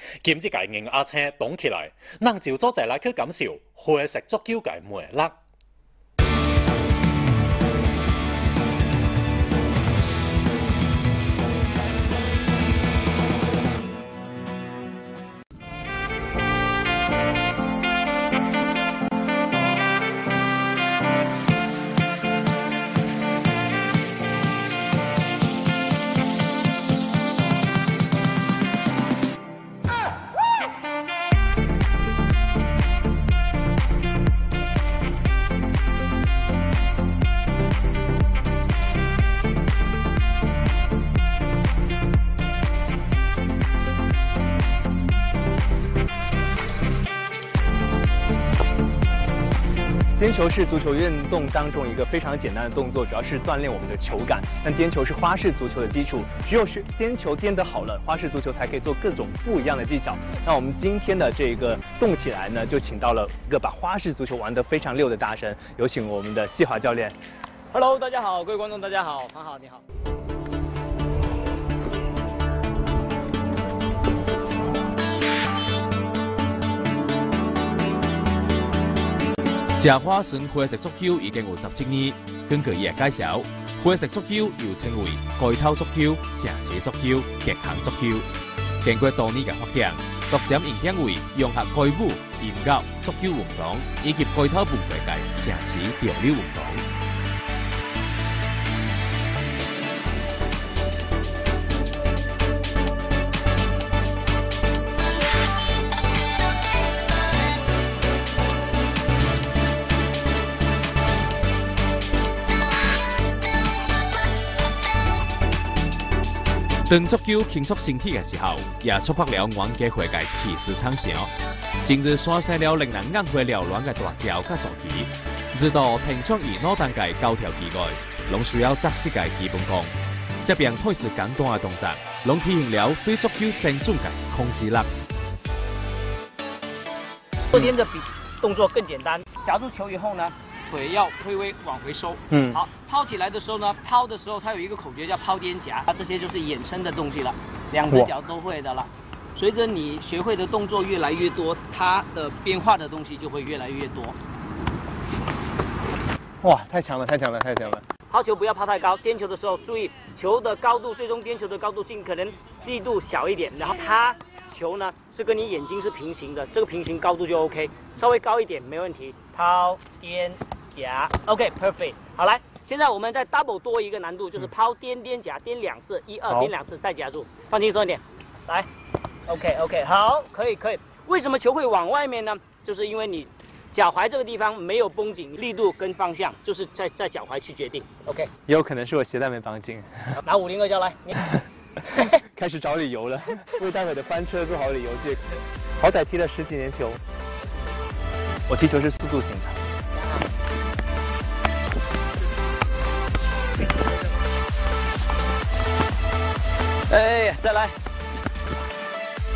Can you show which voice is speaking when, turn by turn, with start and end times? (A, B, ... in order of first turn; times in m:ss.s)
0:00.2-0:05.4 A
0:50.2-1:07.1 B
1:07.7-1:09.8 C
1:19.8-1:28.2 D
1:28.8-1:36.8 D
1:56.8-2:01.3 D
2:01.8-2:09.9 D
2:10.4-2:14.9 D
2:17.5-2:34.2 C
2:22.3-2:22.6 B
2:36.4-2:37.8 B
2:38.1-2:58.7 C
2:59.3-3:08.3 C
3:08.5-3:10.1 B
3:10.2-3:11.2 C
3:11.9-3:12.2 C
3:12.3-3:17.0 B
3:18.5-3:19.6 B
3:27.3-3:27.6 C